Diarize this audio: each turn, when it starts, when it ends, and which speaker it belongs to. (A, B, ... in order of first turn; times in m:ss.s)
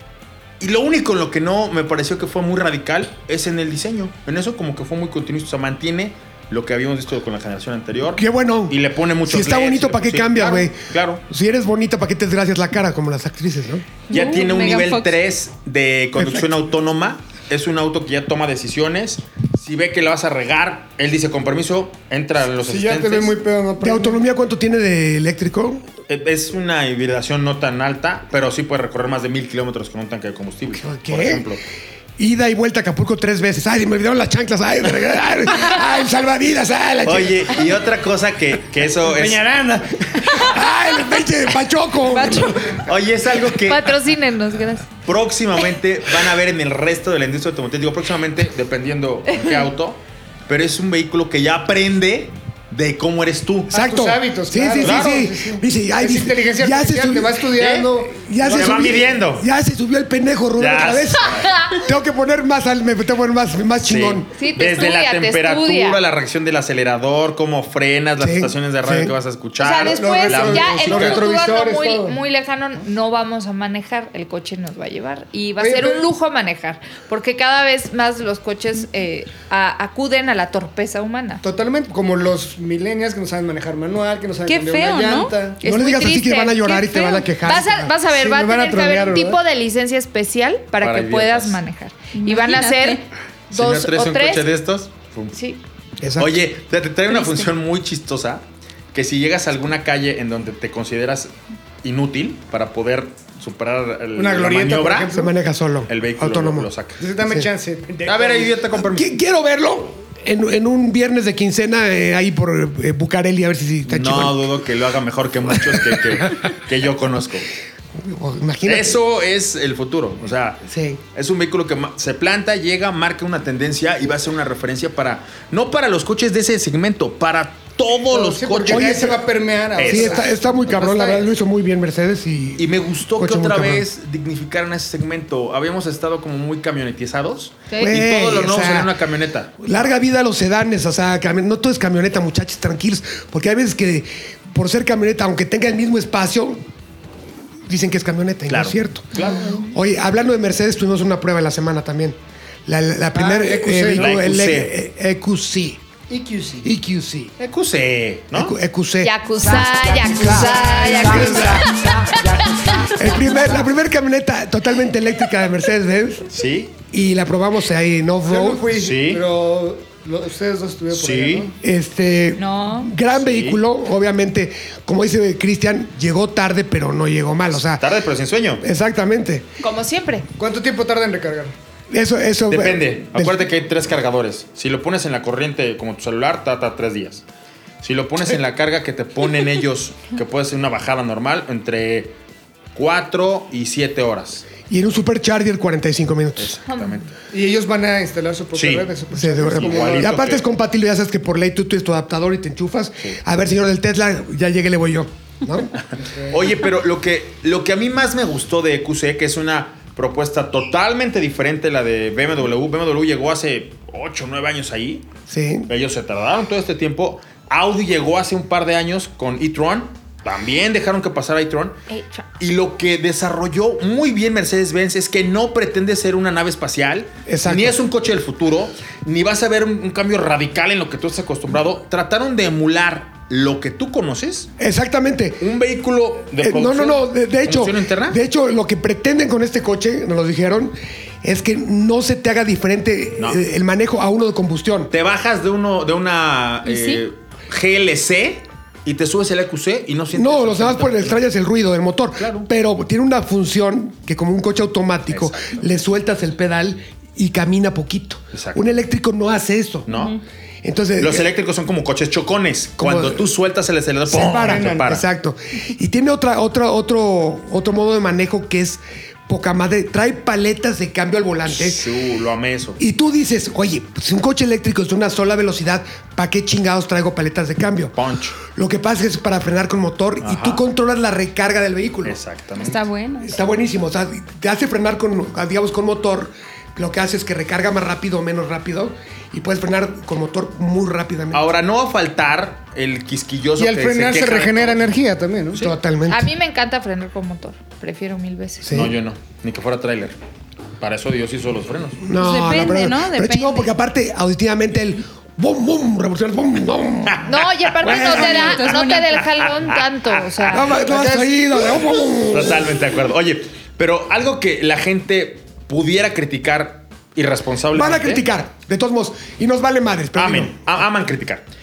0:00.6-0:11.2 A
0:08.1-0:13.9 B
0:14.1-0:15.1 C
0:14.1-0:23.4 A
0:16.2-0:16.5 B
0:22.6-0:24.2 D
0:23.8-0:25.8 B
0:26.1-0:31.6 A
0:30.7-0:31.5 B
0:32.2-0:37.7 B
0:37.0-0:39.6 A
0:39.0-0:40.3 D
0:40.4-0:42.8 B
0:42.1-0:42.5 C
0:42.8-0:44.0 A
0:43.6-0:44.9 E
0:45.0-0:53.7 A
0:53.7-0:57.4 B
0:53.7-0:59.0 D
0:54.8-0:55.2 A
0:57.5-0:59.5 A
0:58.0-1:04.3 B
1:00.6-1:01.5 A
1:01.4-1:01.7 E
1:03.8-1:11.3 A
1:04.3-1:06.0 E
1:08.2-1:09.1 B
1:09.6-1:21.4 E
1:09.8-1:12.2 D
1:15.6-1:16.0 D
1:21.4-1:25.6 D
1:24.4-1:25.3 C
1:25.6-1:34.5 E
1:25.6-1:27.9 B
1:28.0-1:29.4 D
1:30.8-1:31.6 A
1:32.1-1:33.0 C
1:33.5-1:35.4 A
1:35.3-1:35.6 E
1:36.0-1:36.4 B
1:36.2-1:41.3 A
1:37.1-1:37.5 C
1:41.8-1:45.1 A
1:44.2-1:45.3 D
1:45.1-1:46.7 B
1:45.9-1:47.0 A
1:47.0-1:48.5 D
1:48.0-1:49.1 A
1:48.7-1:54.4 B
1:53.8-1:57.5 A
1:55.5-1:56.3 B
1:58.0-1:59.0 B
1:58.6-2:09.2 A
2:00.6-2:01.0 B
2:08.1-2:11.2 D
2:08.6-2:09.2 B
2:09.7-2:10.2 A
2:09.8-2:13.8 B
2:12.6-2:19.8 A
2:17.8-2:18.9 B
2:19.6-2:26.6 B
2:27.6-2:29.1 B
2:28.5-2:29.5 A
2:29.2-2:29.6 D
2:29.7-2:35.8 B
2:33.1-2:34.1 D
2:33.9-2:34.7 A
2:36.1-2:36.7 D
2:36.6-2:37.3 B
2:37.4-2:38.5 A
2:38.3-2:41.8 B
2:39.0-2:41.6 E
2:39.6-2:43.4 D
2:42.9-2:46.3 B
2:46.3-2:46.7 A
2:46.9-2:48.6 B
2:48.2-2:51.5 D
2:48.7-2:49.2 A
2:50.9-2:51.5 A
2:51.6-2:57.9 B
2:52.4-2:52.9 E
2:53.1-2:53.6 A
2:57.5-2:58.6 A
2:58.6-2:59.4 B
2:59.6-3:00.2 E
3:00.4-3:01.5 D
3:01.9-3:03.4 B
3:02.5-3:07.2 A
3:07.8-3:12.1 A
3:12.7-3:14.5 A
3:14.7-3:16.6 B
3:16.4-3:17.1 A
3:16.7-3:17.0 E
3:17.3-3:20.2 D
3:18.5-3:18.9 A
3:19.1-3:25.7 B
3:19.5-3:20.4 A
3:25.8-3:35.1 A
3:26.0-3:26.4 D
3:35.3-3:35.7 B
3:35.7-3:41.8 A
3:41.9-3:42.2 E
3:42.4-3:54.5 A
3:47.3-3:47.8 B
3:54.6-3:55.5 B
3:55.4-3:58.2 A
3:56.4-4:04.9 B
4:04.9-4:11.2 A
4:06.6-4:07.0 C
4:10.1-4:19.9 B
4:12.2-4:12.5 A
4:15.1-4:15.6 A
4:18.3-4:18.6 A
4:19.9-4:20.2 A
4:20.6-4:21.3 B
4:21.0-4:25.0 A
4:22.8-4:23.3 B
4:24.1-4:31.9 B
4:24.2-4:24.9 D
4:31.4-4:32.8 A
4:32.8-4:42.2 B
4:38.0-4:38.4 A
4:40.2-4:40.6 A
4:42.0-4:42.8 A
4:42.6-4:43.4 C
4:43.2-4:51.5 B
4:51.3-4:54.9 A
4:53.6-4:55.6 D
4:55.5-4:56.3 B
4:56.1-4:58.6 E
4:58.6-4:58.9 B
4:58.7-5:00.1 A
5:00.8-5:02.0 A
5:02.0-5:07.3 B
5:02.2-5:03.7 C
5:07.1-5:08.5 A
5:07.2-5:10.7 E
5:07.8-5:08.6 B
5:08.0-5:09.2 C
5:09.4-5:10.7 A
5:10.5-5:12.7 B
5:10.8-5:11.3 D
5:12.3-5:18.2 A
5:17.7-5:20.6 B
5:20.1-5:21.4 A